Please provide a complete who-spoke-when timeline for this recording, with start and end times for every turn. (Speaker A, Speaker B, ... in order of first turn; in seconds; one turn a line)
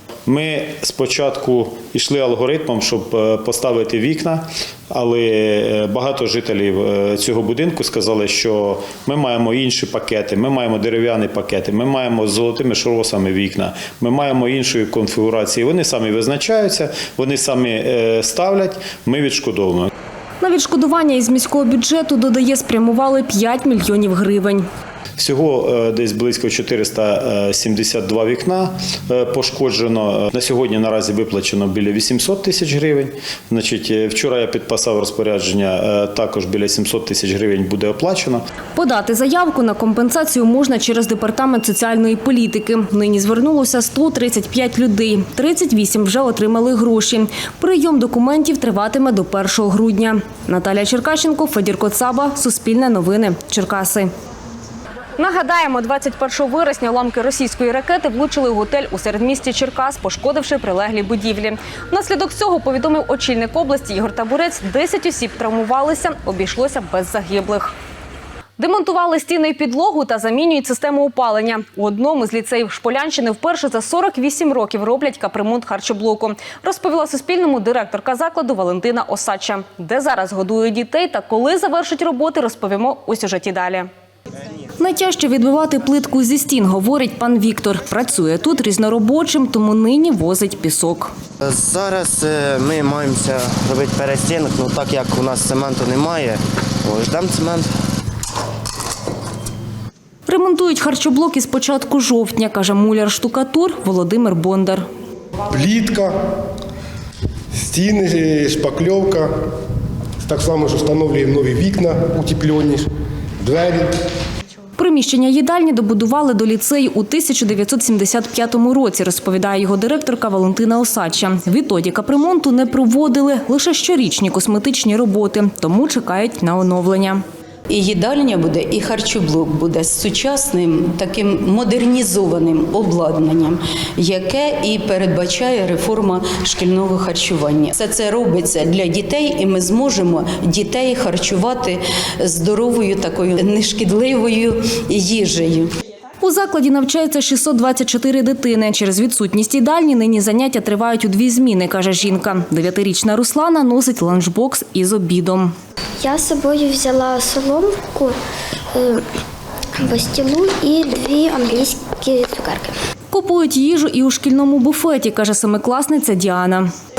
Speaker A: 0.2-19.9
Speaker B: 20.4-24.6
Speaker A: 25.2-38.4
Speaker B: 38.7-54.1
Speaker B: 55.2-67.7
Speaker B: 68.6-83.9
Speaker B: 84.8-91.1
Speaker C: 91.4-97.6
Speaker B: 100.3-104.8
Speaker D: 105.5-106.1
Speaker D: 107.7-109.3
Speaker D: 110.3-112.8
Speaker D: 113.4-113.9
Speaker B: 114.8-127.2
Speaker E: 127.7-145.7
Speaker B: 146.2-155.5
Speaker F: 156.0-158.2
Speaker F: 158.7-159.0
Speaker F: 159.8-162.7
Speaker B: 163.1-166.7